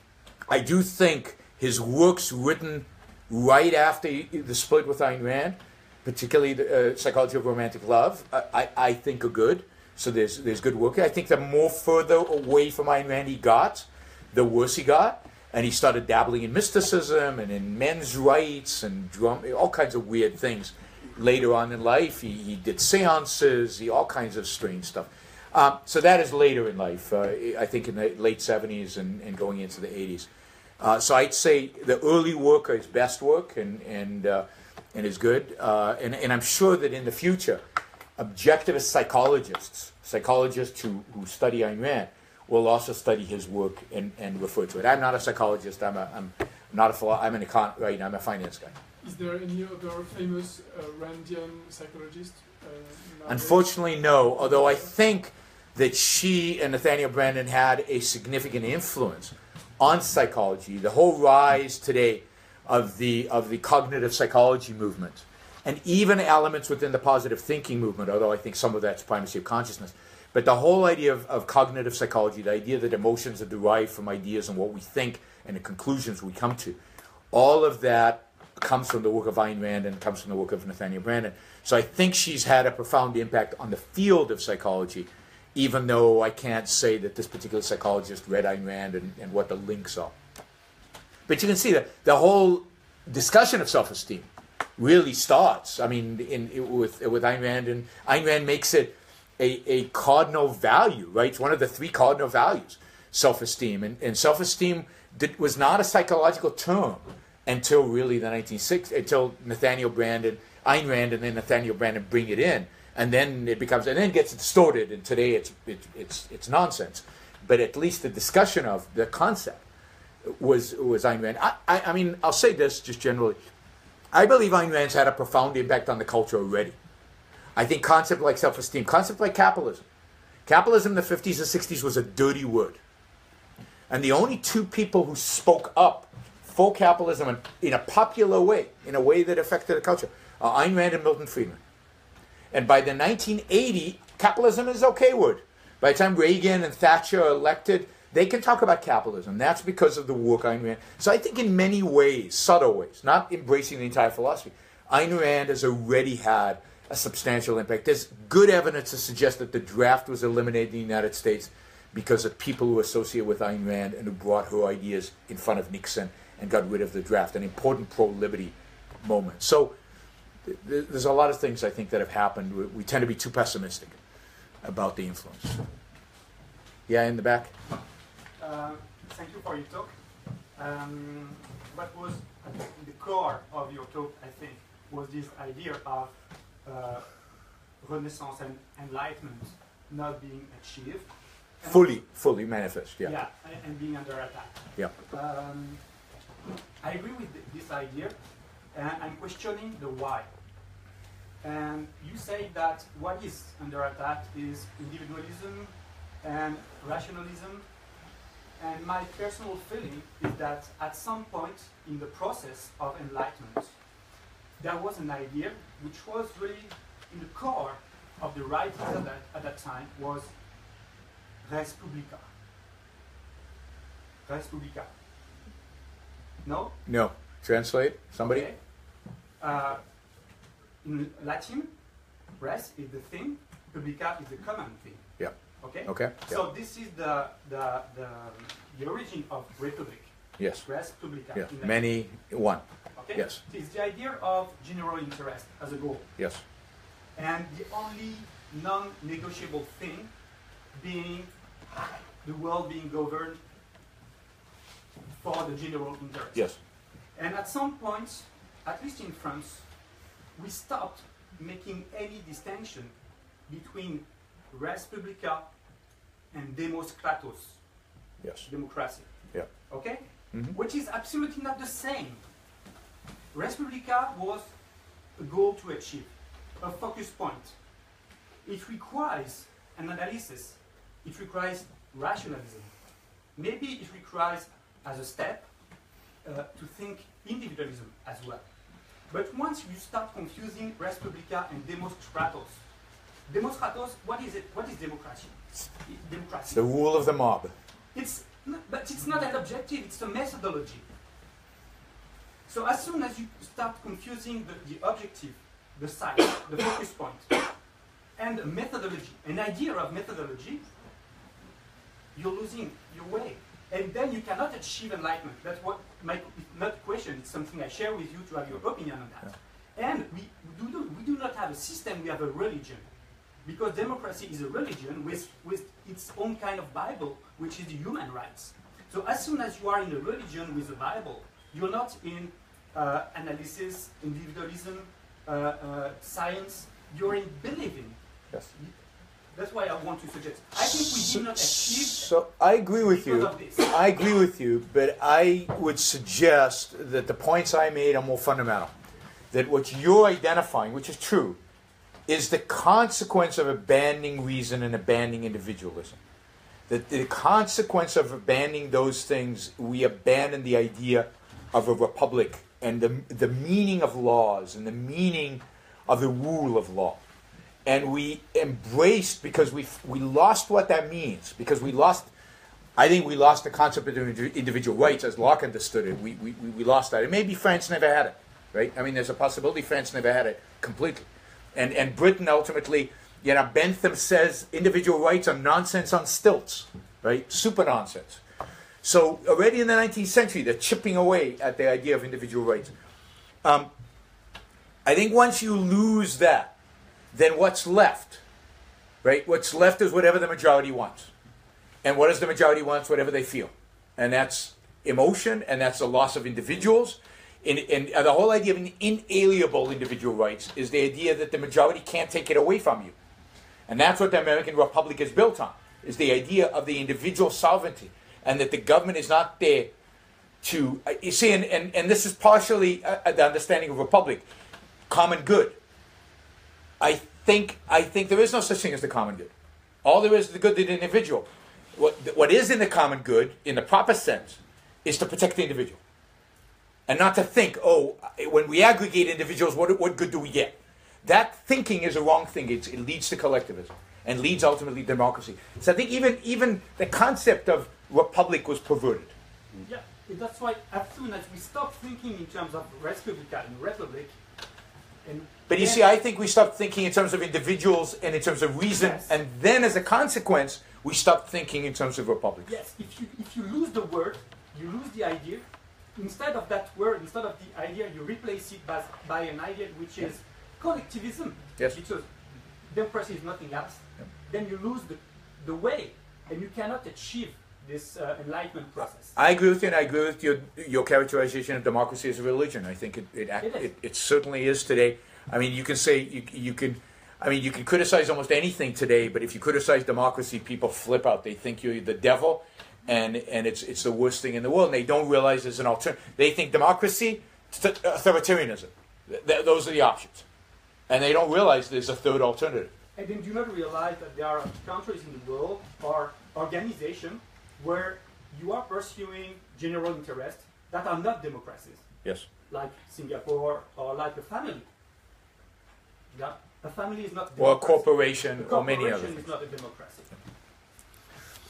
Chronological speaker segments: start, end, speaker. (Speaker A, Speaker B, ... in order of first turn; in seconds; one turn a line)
Speaker A: 0.5-30.3
Speaker A: 30.8-37.6
Speaker A: 38.2-48.7
Speaker B: 49.0-55.0
Speaker A: 53.2-76.8
Speaker A: 77.3-90.1
Speaker A: 91.3-119.6
Speaker A: 120.2-123.4
Speaker A: 124.1-126.8
Speaker A: 127.5-129.8
Speaker A: 130.4-132.8
Speaker A: 133.9-141.6
Speaker A: 142.5-169.8
Speaker A: 170.4-174.0
Speaker A: 174.6-175.6
Speaker A: 176.9-177.5
Speaker C: 178.4-179.9
Speaker C: 180.5-192.0
Speaker A: 191.6-193.2
Speaker C: 193.0-195.8
Speaker C: 196.8-198.2
Speaker C: 198.7-200.3
Speaker C: 201.4-207.7
Speaker C: 208.6-213.8
Speaker C: 214.6-220.3
Speaker C: 221.4-222.2
Speaker C: 224.2-224.9
Speaker C: 226.4-226.8
Speaker A: 226.8-228.5
Speaker C: 228.2-228.6
Speaker C: 229.4-229.8
Speaker C: 230.8-231.7
Speaker C: 232.4-235.1
Speaker A: 235.2-236.4
Speaker C: 235.6-242.0
Speaker A: 240.4-240.7
Speaker A: 241.3-242.6
Speaker C: 242.9-246.1
Speaker A: 243.1-243.4
Speaker C: 247.1-250.1
Speaker C: 250.7-251.3
Speaker C: 252.2-253.4
Speaker C: 255.2-259.8
Speaker C: 260.3-265.5
Speaker C: 266.3-267.6
Speaker A: 268.2-269.5
Speaker C: 268.4-272.2
Speaker A: 270.3-270.6
Speaker C: 273.3-274.5
Speaker C: 275.1-277.6
Speaker C: 278.4-285.5
Speaker C: 286.2-288.5
Speaker C: 289.1-292.6
Speaker C: 293.3-296.6
Speaker A: 296.5-297.5
Speaker C: 297.9-300.8
Speaker C: 302.5-307.4
Speaker C: 308.1-310.7
Speaker C: 312.1-322.9
Speaker C: 323.4-338.0
Speaker C: 339.3-342.1
Speaker A: 340.6-348.7
Speaker C: 342.8-343.7
Speaker A: 349.3-351.4
Speaker A: 352.1-356.0
Speaker A: 356.7-367.0
Speaker A: 367.6-372.1
Speaker A: 372.8-388.2
Speaker A: 388.8-392.7
Speaker A: 393.4-393.7
Speaker A: 394.8-396.5
Speaker A: 397.1-398.2
Speaker A: 399.0-401.1
Speaker A: 401.8-412.9
Speaker A: 413.7-419.7
Speaker A: 420.4-424.2
Speaker A: 424.9-425.6
Speaker A: 426.8-429.3
Speaker A: 429.8-435.8
Speaker A: 436.9-449.1
Speaker C: 449.6-454.1
Speaker C: 455.0-455.9
Speaker A: 455.5-462.6
Speaker C: 458.7-459.1
Speaker C: 462.4-465.4
Speaker C: 465.9-472.1
Speaker C: 472.6-479.2
Speaker A: 478.8-500.2
Speaker C: 483.4-483.7
Speaker A: 500.9-502.7
Speaker C: 502.9-511.8
Speaker C: 512.5-514.7
Speaker C: 516.1-520.1
Speaker A: 517.4-519.3